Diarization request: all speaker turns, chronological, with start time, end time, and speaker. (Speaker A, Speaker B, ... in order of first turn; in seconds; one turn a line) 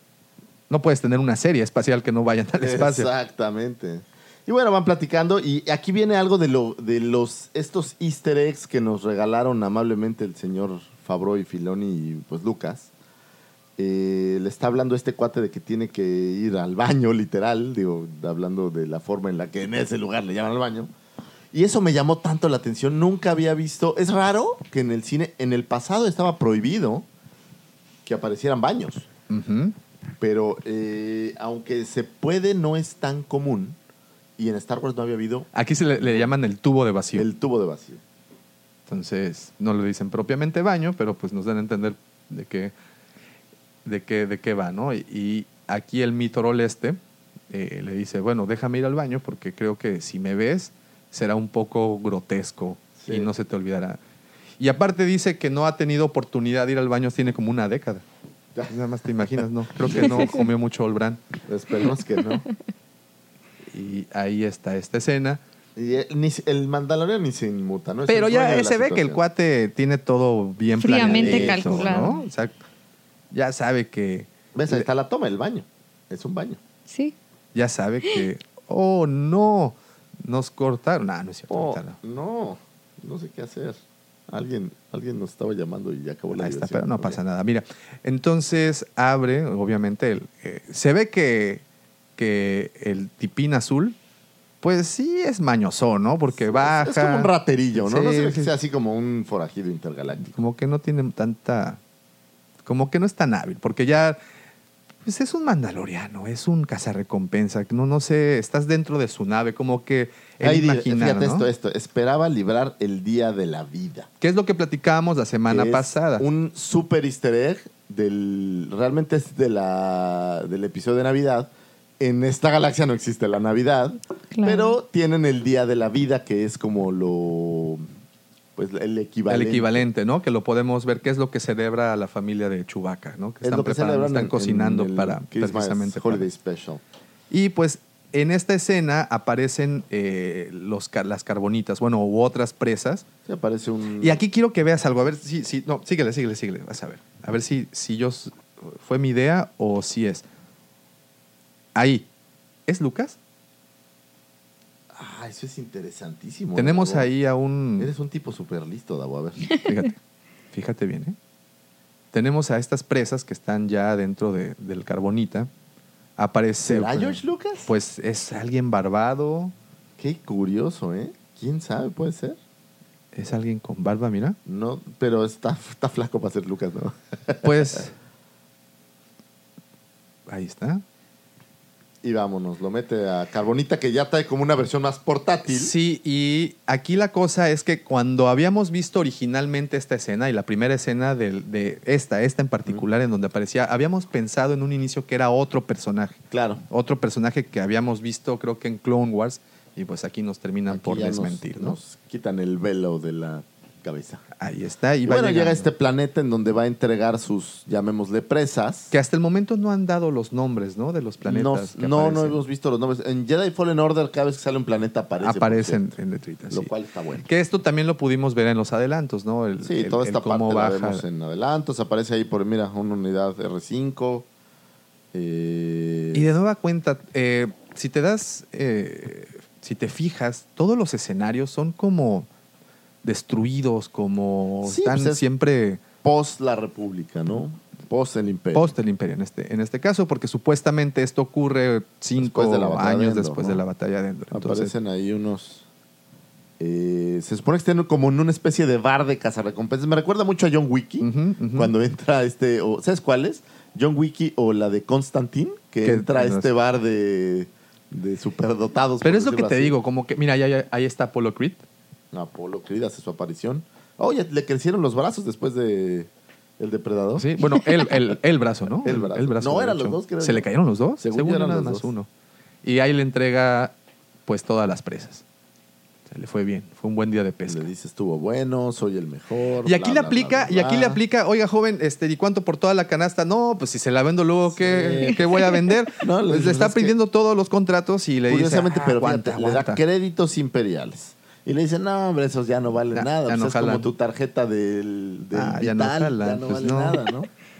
Speaker A: 0.7-3.1
Speaker B: 2.6-12.9
Speaker B: 13.8-20.9
Speaker B: 21.5-27.1
Speaker B: 28.0-29.1
Speaker A: 29.3-29.8
Speaker B: 30.2-33.8
Speaker B: 34.4-36.3
Speaker A: 35.5-37.3
Speaker B: 37.1-38.0
Speaker A: 38.9-42.7
Speaker A: 43.8-47.0
Speaker A: 47.5-54.0
Speaker B: 53.0-53.3
Speaker A: 54.6-58.0
Speaker A: 58.7-61.2
Speaker B: 59.8-60.3
Speaker B: 61.5-62.5
Speaker A: 63.7-65.4
Speaker B: 65.8-69.2
Speaker A: 68.1-72.5
Speaker C: 70.8-72.2
Speaker B: 70.9-72.1
Speaker A: 73.3-74.8
Speaker B: 74.5-76.6
Speaker C: 76.9-77.1
Speaker A: 77.5-82.0
Speaker B: 81.5-87.2
Speaker A: 86.3-91.6
Speaker A: 92.2-94.0
Speaker A: 94.6-98.5
Speaker B: 96.3-100.4
Speaker A: 100.2-101.8
Speaker A: 102.7-104.2
Speaker A: 105.0-111.5
Speaker B: 110.4-114.1
Speaker A: 114.2-116.2
Speaker B: 115.5-127.8
Speaker C: 124.3-124.8
Speaker B: 128.6-129.8
Speaker A: 129.3-136.3
Speaker B: 133.4-136.8
Speaker A: 137.3-143.0
Speaker B: 143.2-144.2
Speaker A: 144.0-150.2
Speaker A: 151.7-152.1
Speaker A: 152.7-153.2
Speaker B: 154.9-157.1
Speaker A: 156.5-157.9
Speaker B: 157.8-159.5
Speaker A: 159.6-160.0
Speaker A: 160.5-161.2
Speaker A: 162.1-165.5
Speaker A: 166.2-169.5
Speaker B: 166.6-167.7
Speaker B: 170.0-172.4
Speaker A: 173.1-174.4
Speaker B: 174.4-177.8
Speaker A: 177.4-177.9
Speaker A: 180.3-180.8
Speaker B: 182.0-185.7
Speaker A: 185.5-201.8
Speaker B: 196.3-196.6
Speaker B: 200.7-204.2
Speaker A: 204.4-205.7
Speaker B: 205.0-208.9
Speaker A: 208.9-212.4
Speaker B: 211.2-215.9
Speaker A: 215.2-221.0
Speaker B: 216.5-217.3
Speaker B: 219.6-224.3
Speaker B: 225.1-226.3
Speaker A: 226.1-232.3
Speaker A: 233.0-235.8
Speaker B: 234.6-235.2
Speaker B: 236.0-238.7
Speaker A: 238.5-244.7
Speaker B: 242.2-243.6
Speaker B: 244.3-245.7
Speaker B: 246.6-259.8
Speaker A: 251.0-251.7
Speaker A: 255.8-256.5
Speaker A: 259.0-261.6
Speaker B: 262.1-268.1
Speaker A: 267.2-272.1
Speaker B: 268.8-271.9
Speaker A: 272.6-273.7
Speaker A: 274.2-275.2
Speaker A: 276.1-277.7
Speaker B: 277.4-281.0
Speaker A: 279.6-289.8
Speaker B: 284.5-285.3
Speaker B: 286.0-286.9
Speaker B: 288.3-297.3
Speaker A: 292.9-293.9
Speaker A: 295.3-297.0